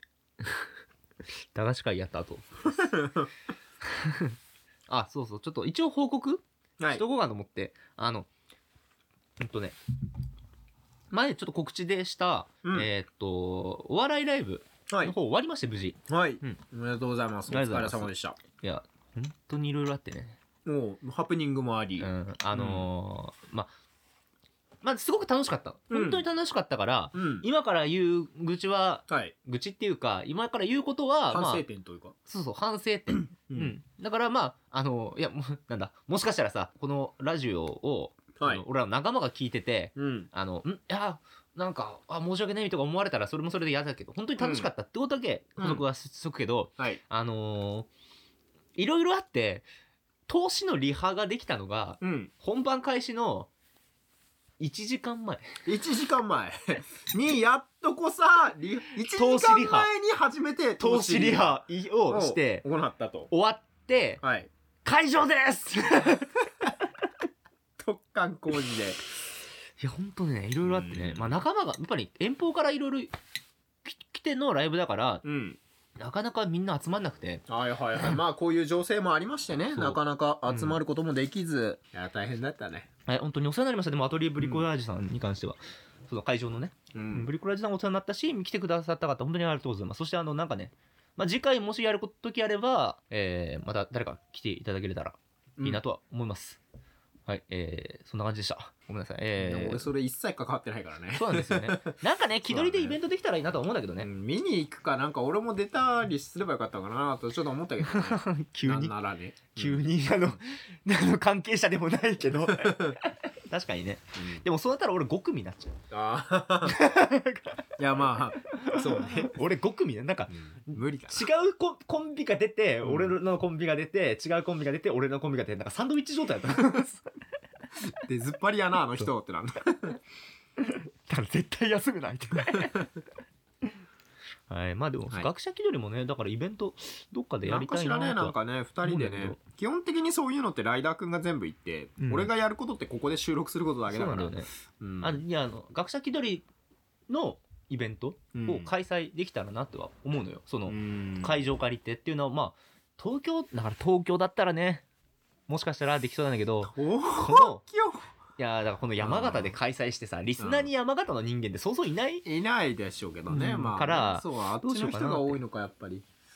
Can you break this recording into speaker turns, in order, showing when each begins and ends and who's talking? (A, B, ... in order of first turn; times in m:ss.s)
0:00.4-0:00.7 A
0:01.5-0:02.8 A
0:02.7-0:03.3 B
0:03.8-0:04.4 A
0:04.9-0:08.3 A
0:06.8-0:07.0 B
0:09.4-0:09.8 A
0:11.1-0:16.6 A
0:14.9-0:15.2 B
0:16.1-0:18.4 B
0:17.5-0:20.4 A
0:20.6-0:22.9 B
0:22.0-0:23.7 A
0:24.8-0:31.6 A
0:25.9-0:26.2 B
0:27.1-0:27.5 B
0:29.1-0:29.3 B
0:31.3-0:32.2 B
0:32.3-0:47.9 A
0:33.5-0:33.8 B
0:38.4-0:38.6 B
0:40.0-0:40.3 B
0:44.4-0:44.7 B
0:45.6-0:45.8 B
0:48.8-0:49.7 A
0:50.3-0:53.5 A
0:52.0-0:52.3 B
0:54.6-0:55.5 A
0:55.6-1:03.3 B
0:59.1-0:59.9 A
1:00.8-1:02.7 A
1:03.3-1:04.2 A
1:04.2-1:04.5 B
1:04.8-1:06.4 A
1:07.8-1:09.0 B
1:09.8-1:13.1 A
1:10.6-1:11.4 B
1:13.8-1:15.2 A
1:15.2-1:15.6 B
1:16.0-1:17.4 A
1:17.5-1:22.9 B
1:19.7-1:20.8 A
1:23.1-1:36.6 A
1:24.4-1:24.7 B
1:26.9-1:27.3 B
1:35.6-1:35.8 B
1:37.3-1:39.9 A
1:39.4-1:43.0 B
1:41.2-1:44.1 A
1:44.0-1:49.8 B
1:47.8-1:48.9 A
1:49.6-1:55.8 A
1:52.5-1:53.0 B
1:54.2-1:54.4 B
1:55.9-1:56.8 B
1:56.7-1:57.7 A
1:57.8-1:59.4 B
1:58.5-2:07.0 A
2:00.3-2:01.3 B
2:02.8-2:03.2 B
2:08.0-2:10.0 B
2:10.6-2:12.9 A
2:14.5-2:19.4 A
2:17.5-2:25.2 B
2:22.0-2:22.3 A
2:23.9-2:24.5 A
2:25.0-2:26.5 A
2:27.1-2:34.8 A
2:28.4-2:28.7 B
2:30.7-2:31.4 B
2:35.5-2:37.6 A
2:36.6-2:38.1 B
2:38.4-2:42.2 A
2:39.0-2:39.6 B
2:40.4-2:40.7 B
2:42.2-2:46.1 B
2:43.3-2:45.4 A